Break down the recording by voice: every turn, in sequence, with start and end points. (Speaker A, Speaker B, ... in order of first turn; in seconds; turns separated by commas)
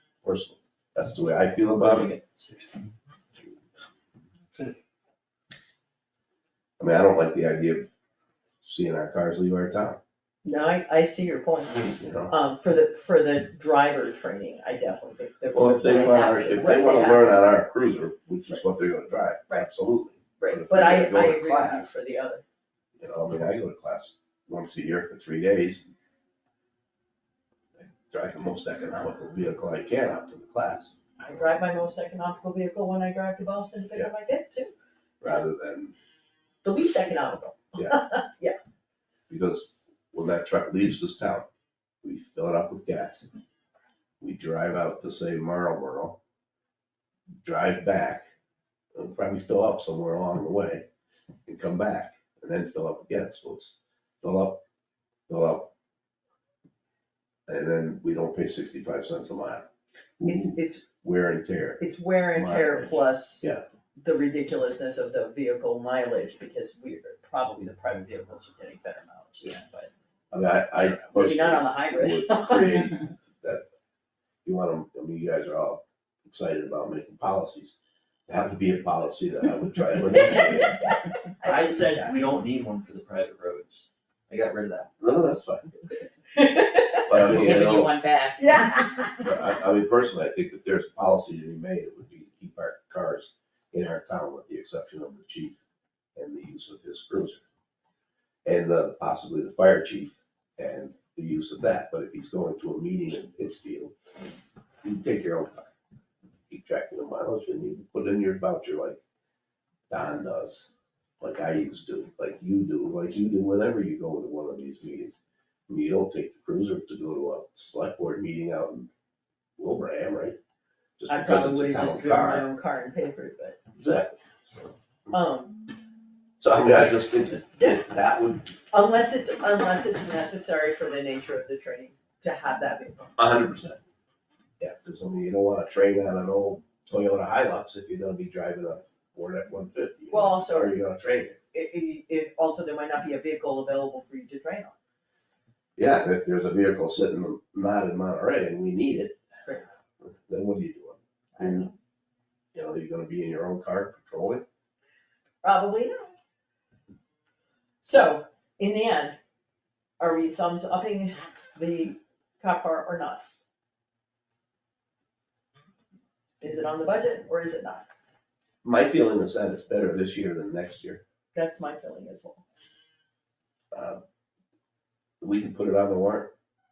Speaker A: 0.2-2.1, Speaker B: 1.8-3.5, Speaker A: 6.8-7.9, Speaker A: 8.6-10.0, Speaker C: 10.4-17.5, Speaker A: 11.8-12.3, Speaker A: 15.5-21.9, Speaker D: 15.8-17.1, Speaker C: 20.4-22.4, Speaker A: 23.0-25.9, Speaker A: 27.8-31.0, Speaker C: 31.2-34.7, Speaker A: 35.2-35.9, Speaker C: 36.6-38.6, Speaker A: 39.3-41.5, Speaker A: 42.0-43.2, Speaker A: 44.2-46.2, Speaker A: 47.4-48.3, Speaker A: 48.9-50.9, Speaker A: 51.5-54.6, Speaker A: 55.3-55.7, Speaker A: 57.5-59.7, Speaker A: 60.2-63.6, Speaker C: 60.2-60.9, Speaker C: 61.8-69.9, Speaker A: 70.3-73.6, Speaker C: 71.0-72.8, Speaker A: 74.4-80.9, Speaker C: 81.4-82.2, Speaker B: 81.4-84.9, Speaker A: 85.0-85.8, Speaker C: 86.3-87.2, Speaker A: 87.0-87.9, Speaker D: 87.2-89.3, Speaker C: 88.4-89.2, Speaker A: 89.2-95.6, Speaker A: 96.2-97.4, Speaker A: 98.4-103.9, Speaker A: 104.8-105.7, Speaker A: 106.5-109.0, Speaker A: 109.9-115.2, Speaker A: 115.7-118.9, Speaker A: 119.6-120.4, Speaker A: 121.0-122.5, Speaker C: 121.1-123.6, Speaker A: 123.7-124.8, Speaker C: 125.1-125.6, Speaker A: 126.4-128.6, Speaker C: 128.7-133.1, Speaker A: 133.2-133.8, Speaker A: 134.6-141.4, Speaker C: 140.1-140.7, Speaker C: 141.5-144.8, Speaker A: 145.8-149.2, Speaker A: 150.0-151.7, Speaker C: 151.3-151.7, Speaker A: 152.5-154.4, Speaker C: 155.4-156.1, Speaker C: 157.8-159.2, Speaker C: 160.0-163.2, Speaker C: 166.4-167.9, Speaker A: 168.6-171.0, Speaker C: 171.3-172.4, Speaker A: 173.7-174.0, Speaker A: 175.2-176.3